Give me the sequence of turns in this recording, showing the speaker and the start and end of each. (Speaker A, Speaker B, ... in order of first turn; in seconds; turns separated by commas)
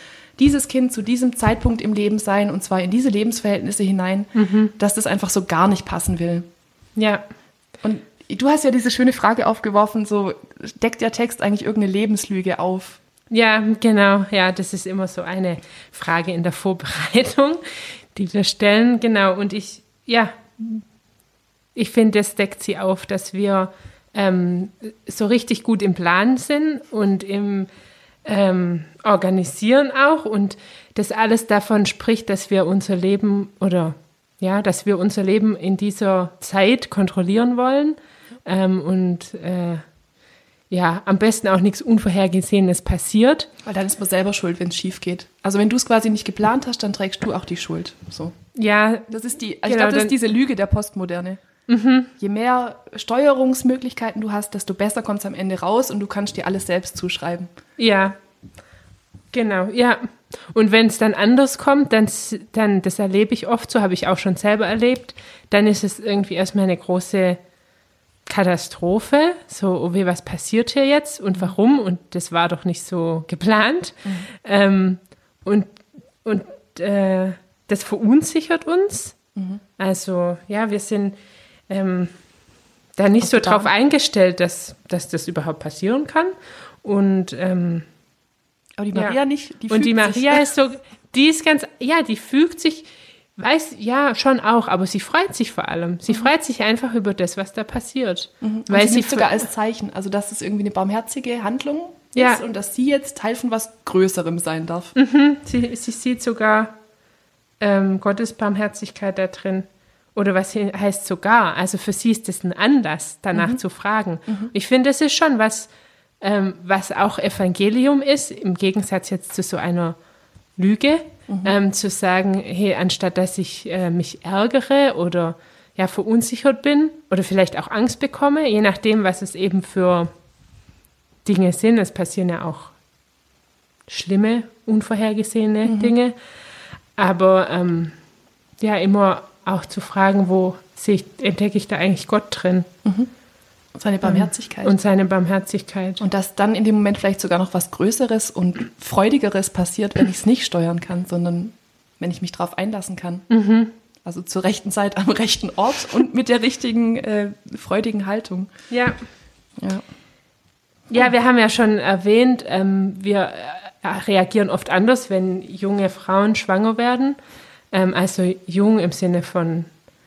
Speaker A: 0.4-6.5, Speaker B: 4.3-4.7, Speaker B: 7.0-7.2, Speaker A: 7.8-13.0, Speaker B: 13.3-17.6, Speaker B: 18.1-20.8, Speaker B: 21.8-27.7, Speaker B: 28.2-39.9, Speaker B: 40.7-43.5, Speaker A: 43.6-48.4, Speaker B: 48.5-49.1, Speaker A: 49.1-51.4, Speaker B: 49.6-50.2, Speaker B: 51.7-52.1, Speaker A: 52.2-57.5, Speaker B: 57.8-58.2, Speaker B: 59.3-67.4, Speaker B: 68.3-79.2, Speaker A: 79.4-79.6, Speaker B: 79.8-81.2, Speaker B: 81.7-82.1, Speaker B: 83.0-87.9, Speaker A: 83.2-83.7, Speaker A: 88.8-90.5, Speaker B: 89.7-99.4, Speaker A: 98.4-104.9, Speaker B: 102.2-102.4, Speaker B: 105.0-106.7, Speaker B: 107.6-115.7, Speaker A: 113.3-113.6, Speaker A: 114.3-114.5, Speaker B: 116.2-120.0, Speaker B: 120.6-130.1, Speaker A: 121.3-121.5, Speaker B: 131.2-132.7, Speaker B: 133.9-136.2, Speaker A: 135.7-135.9, Speaker B: 137.0-137.9, Speaker B: 138.6-142.7, Speaker A: 142.8-143.1, Speaker A: 143.8-144.8, Speaker B: 144.0-146.0, Speaker A: 146.0-153.3, Speaker B: 153.3-153.7, Speaker A: 154.0-158.5, Speaker B: 158.7-159.0, Speaker A: 159.6-159.8, Speaker B: 160.9-167.2, Speaker B: 167.7-169.7